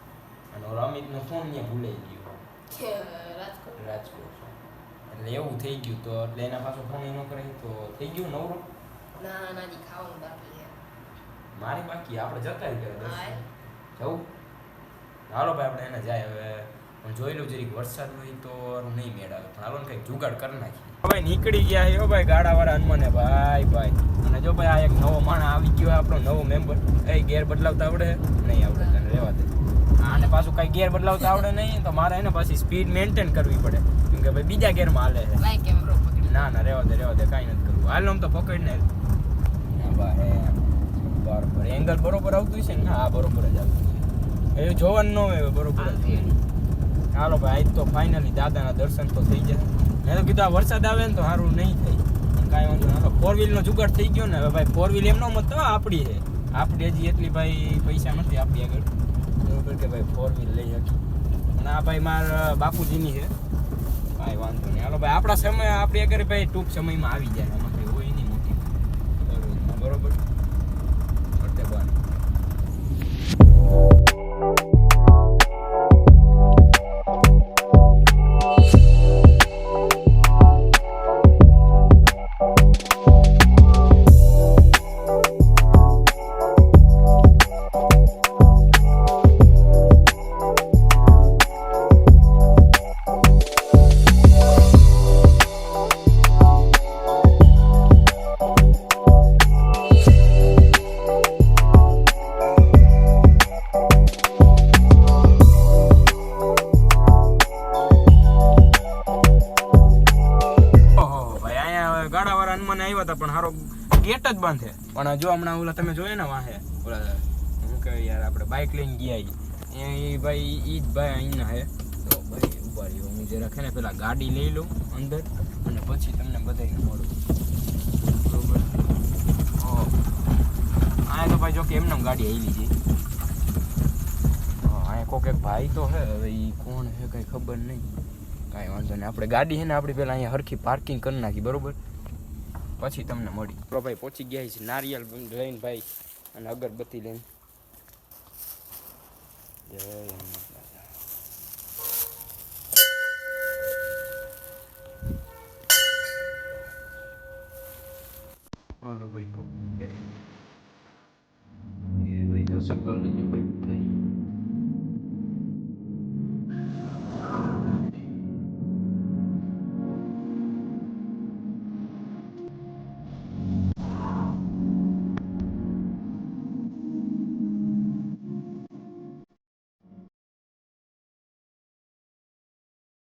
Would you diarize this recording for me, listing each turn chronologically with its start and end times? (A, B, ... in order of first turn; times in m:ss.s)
0:00.5-0:02.4 A
0:02.7-0:03.8 B
0:03.8-0:04.6 A
0:05.1-0:08.7 A
0:09.2-0:10.8 B
0:11.5-0:13.3 A
0:13.0-0:13.5 B
0:14.0-0:14.3 A
0:15.3-0:35.4 A
0:28.7-0:29.0 B
0:35.4-0:36.5 B
0:36.2-0:38.9 A
0:39.7-0:46.4 A
0:45.8-0:46.4 B
0:47.1-0:58.9 A
0:59.4-1:01.0 A
1:01.5-1:03.3 A
1:04.2-1:10.2 A
1:11.4-1:12.0 A
1:51.0-2:07.2 A
2:08.2-2:08.7 A
2:09.6-2:10.0 A
2:11.0-2:12.8 A
2:14.6-2:17.9 A
2:18.5-2:21.8 A
2:22.8-2:27.3 A
2:29.7-2:30.9 A
2:38.8-2:39.9 A
2:42.0-2:44.0 A